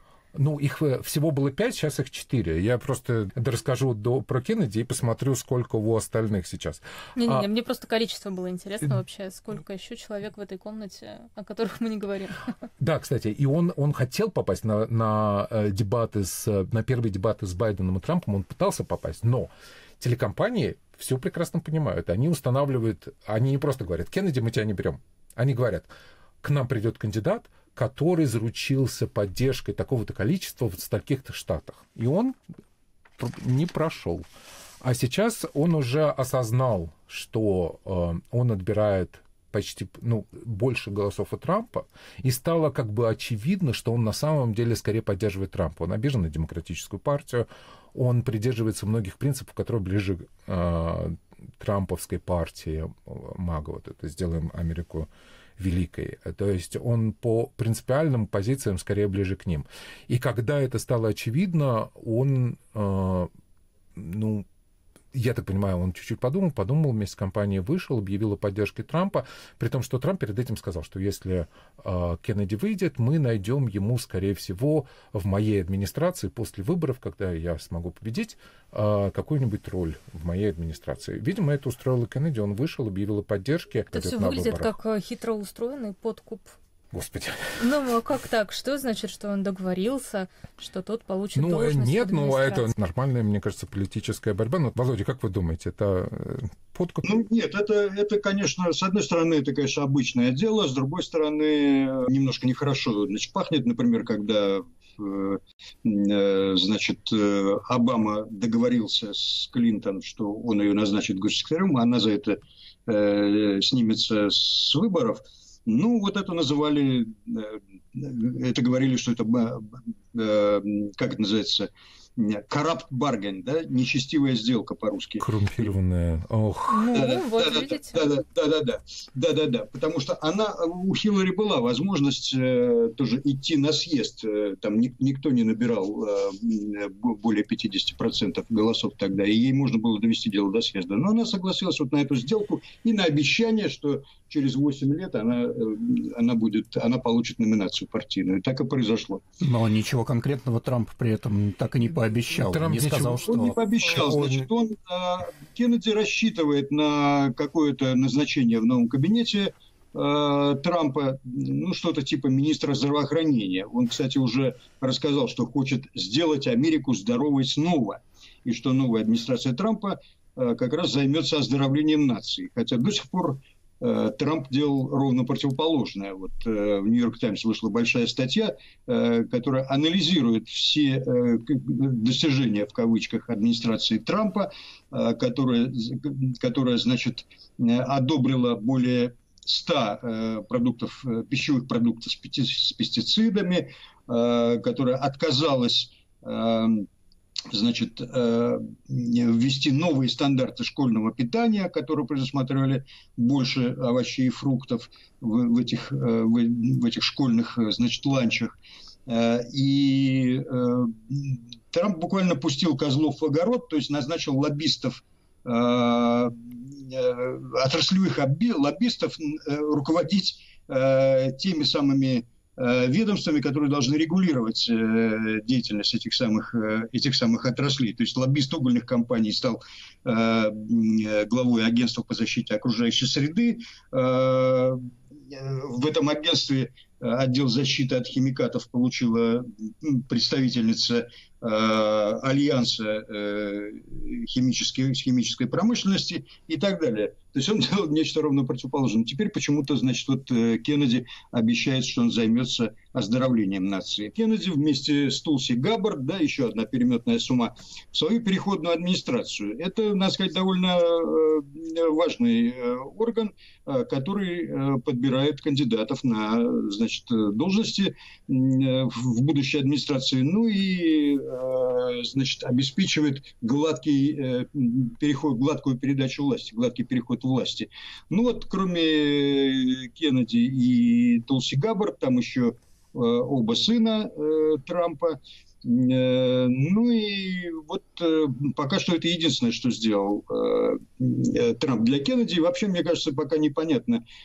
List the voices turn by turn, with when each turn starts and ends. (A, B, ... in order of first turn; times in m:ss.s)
0:00.3-0:07.5 A
0:07.2-0:12.5 B
0:12.8-0:25.9 A
0:26.4-0:32.4 A
0:33.2-0:34.2 A
0:34.8-1:03.3 A
1:04.0-1:04.4 A
1:05.1-1:24.7 A
1:23.9-1:26.5 B
1:26.9-1:27.6 A
1:27.6-1:32.7 B
1:31.3-1:37.0 A
1:37.0-2:05.6 C
2:05.2-2:07.0 A
2:06.7-2:08.0 B
2:06.9-2:29.2 C
2:29.4-2:33.6 D
2:32.4-2:34.5 A
2:33.2-3:16.9 C
3:17.5-3:28.5 C
3:29.1-4:54.0 C